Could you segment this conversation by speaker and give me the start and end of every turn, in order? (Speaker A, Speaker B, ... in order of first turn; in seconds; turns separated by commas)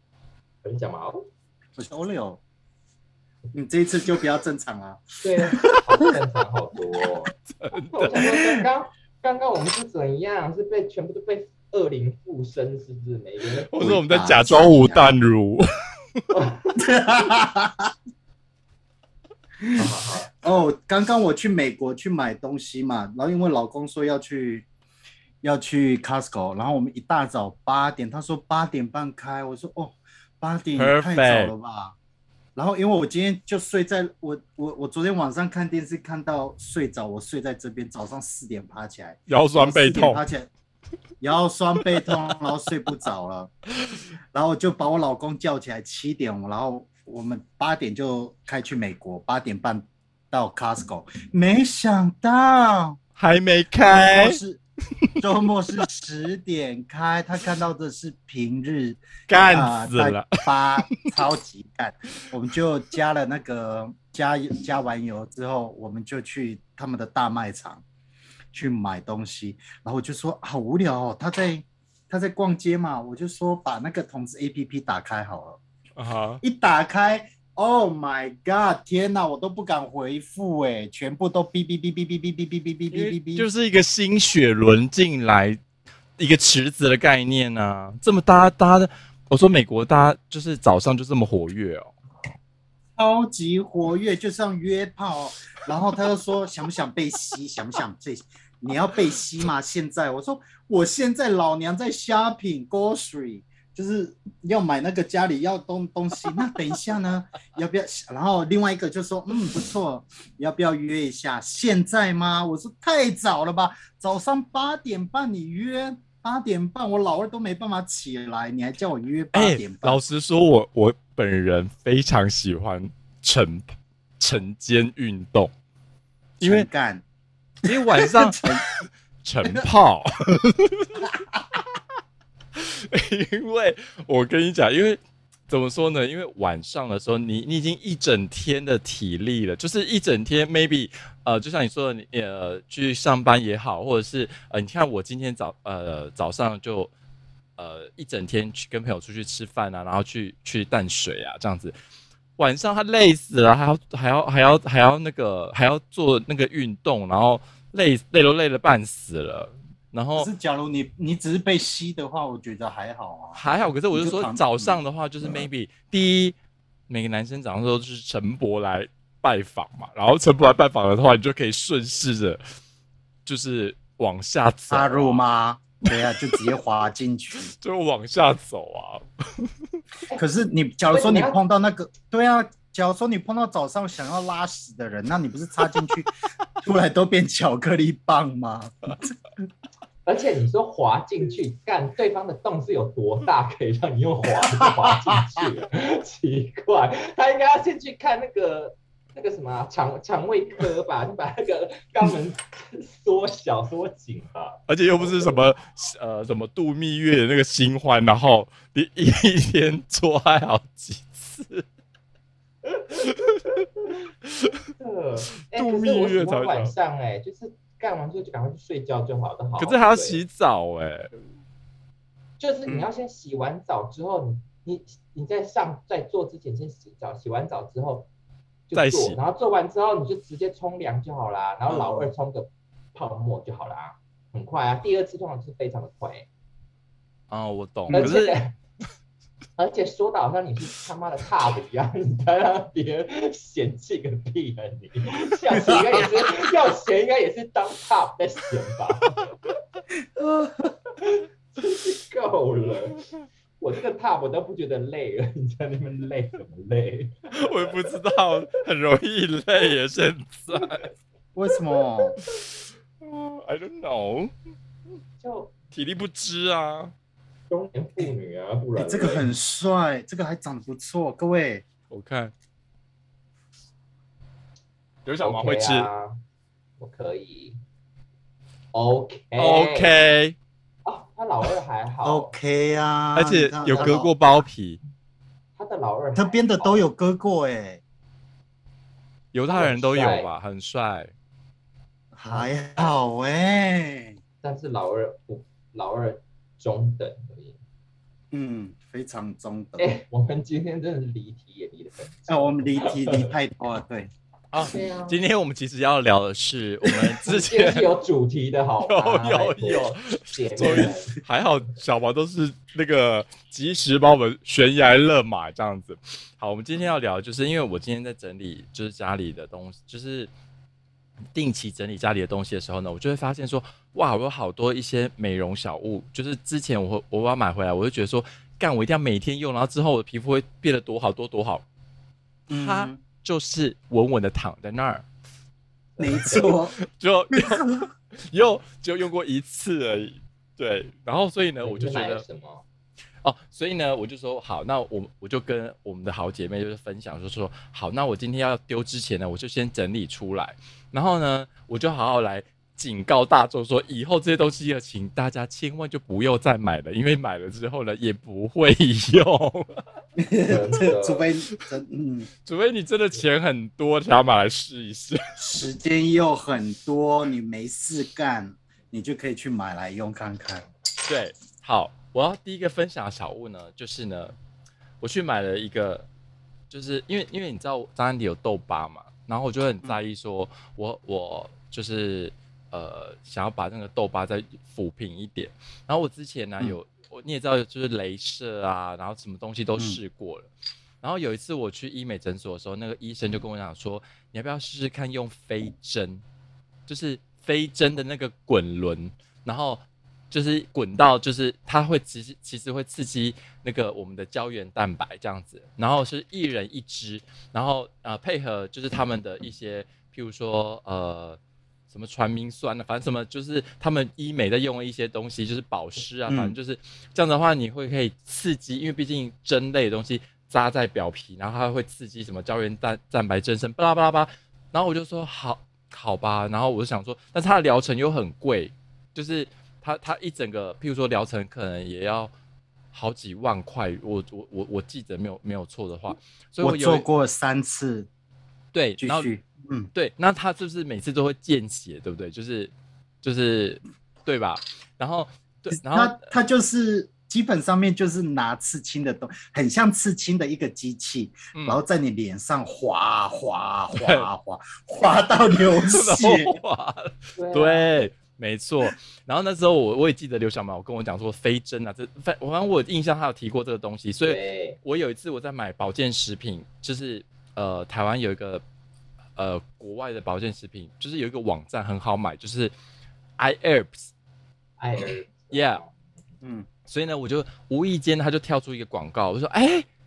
Speaker A: 0.6-1.3, Speaker B: 1.8-2.4, Speaker B: 3.5-5.8, Speaker A: 5.2-7.3, Speaker C: 7.5-8.3, Speaker A: 7.9-13.7, Speaker C: 13.7-15.6, Speaker B: 13.7-15.1, Speaker A: 16.3-17.3, Speaker B: 16.8-17.9, Speaker B: 19.6-24.7, Speaker A: 19.8-20.3, Speaker B: 25.4-31.9, Speaker C: 30.8-31.5, Speaker B: 32.5-40.5, Speaker C: 39.3-40.2, Speaker B: 41.2-43.5, Speaker B: 44.3-53.0, Speaker C: 53.2-54.4, Speaker B: 53.9-54.6, Speaker B: 55.2-67.8, Speaker C: 59.3-60.3, Speaker B: 68.5-75.6, Speaker C: 76.0-76.4, Speaker B: 76.4-83.5, Speaker C: 82.9-85.6, Speaker C: 86.2-91.9, Speaker B: 93.0-120.0, Speaker C: 119.3-125.5, Speaker C: 126.4-126.7, Speaker B: 126.4-127.0, Speaker C: 127.6-128.6, Speaker B: 127.6-128.7, Speaker C: 129.2-131.0, Speaker B: 131.0-131.4, Speaker C: 132.6-146.9, Speaker C: 147.6-151.7, Speaker C: 152.4-160.3, Speaker B: 160.2-165.5, Speaker C: 163.3-166.3, Speaker C: 166.9-172.4, Speaker C: 173.2-175.2, Speaker B: 174.7-177.5, Speaker C: 175.9-176.4, Speaker C: 177.3-179.5, Speaker B: 180.2-189.1, Speaker A: 180.9-181.4, Speaker A: 190.0-205.4, Speaker C: 204.7-211.6, Speaker A: 212.7-213.9, Speaker C: 214.2-214.6, Speaker A: 214.8-220.2, Speaker C: 215.5-216.7, Speaker C: 219.6-221.1, Speaker A: 222.4-228.1, Speaker A: 228.7-236.3, Speaker C: 228.7-229.2, Speaker B: 231.7-232.1, Speaker C: 237.3-238.4, Speaker B: 237.9-238.1, Speaker A: 237.9-238.6, Speaker A: 239.6-249.3, Speaker B: 245.5-246.3, Speaker B: 250.2-250.7, Speaker A: 250.9-253.0, Speaker A: 253.6-258.4, Speaker C: 257.3-260.9, Speaker B: 261.3-262.2, Speaker A: 261.6-262.4, Speaker C: 263.0-264.3, Speaker A: 265.2-265.5, Speaker C: 265.7-266.9, Speaker A: 267.5-269.3, Speaker B: 268.8-271.6, Speaker C: 271.9-272.3, Speaker C: 275.1-275.9, Speaker A: 275.2-276.1, Speaker A: 276.8-277.6, Speaker A: 278.7-279.9, Speaker C: 279.4-280.4, Speaker A: 280.8-282.3, Speaker B: 282.0-284.1, Speaker C: 283.1-284.8, Speaker A: 283.6-284.0, Speaker A: 285.6-286.9, Speaker B: 286.1-287.8, Speaker C: 289.3-291.1, Speaker A: 289.5-290.3, Speaker B: 292.1-294.2, Speaker A: 292.3-292.9, Speaker A: 294.4-297.6, Speaker B: 298.3-299.9, Speaker A: 299.8-303.3, Speaker B: 302.3-304.1, Speaker C: 304.5-307.9, Speaker A: 304.6-305.2, Speaker A: 307.2-311.2, Speaker C: 308.8-320.3, Speaker B: 310.6-310.9, Speaker C: 321.3-331.6, Speaker B: 332.5-333.0, Speaker C: 332.5-335.0, Speaker A: 336.0-336.4, Speaker B: 336.0-336.8, Speaker C: 336.3-342.2, Speaker B: 337.3-337.7, Speaker A: 341.6-342.6, Speaker C: 343.2-359.8, Speaker B: 360.2-362.3, Speaker A: 360.4-361.2, Speaker C: 362.4-365.2, Speaker B: 365.4-370.6, Speaker C: 371.0-374.3, Speaker C: 375.0-376.1, Speaker C: 376.7-390.5, Speaker C: 391.0-396.2, Speaker C: 396.9-411.4, Speaker C: 411.9-432.3, Speaker B: 416.3-416.6, Speaker C: 432.9-437.1, Speaker B: 436.6-438.1, Speaker C: 438.7-439.3, Speaker B: 439.0-439.9, Speaker C: 439.9-446.3, Speaker B: 445.7-456.6, Speaker C: 451.6-451.8, Speaker C: 453.9-454.3, Speaker C: 455.8-468.6, Speaker A: 457.4-458.0, Speaker A: 464.2-464.8, Speaker C: 469.4-472.7, Speaker C: 473.4-474.1, Speaker A: 474.8-476.0, Speaker C: 475.0-475.8, Speaker B: 476.4-476.7, Speaker C: 476.9-479.9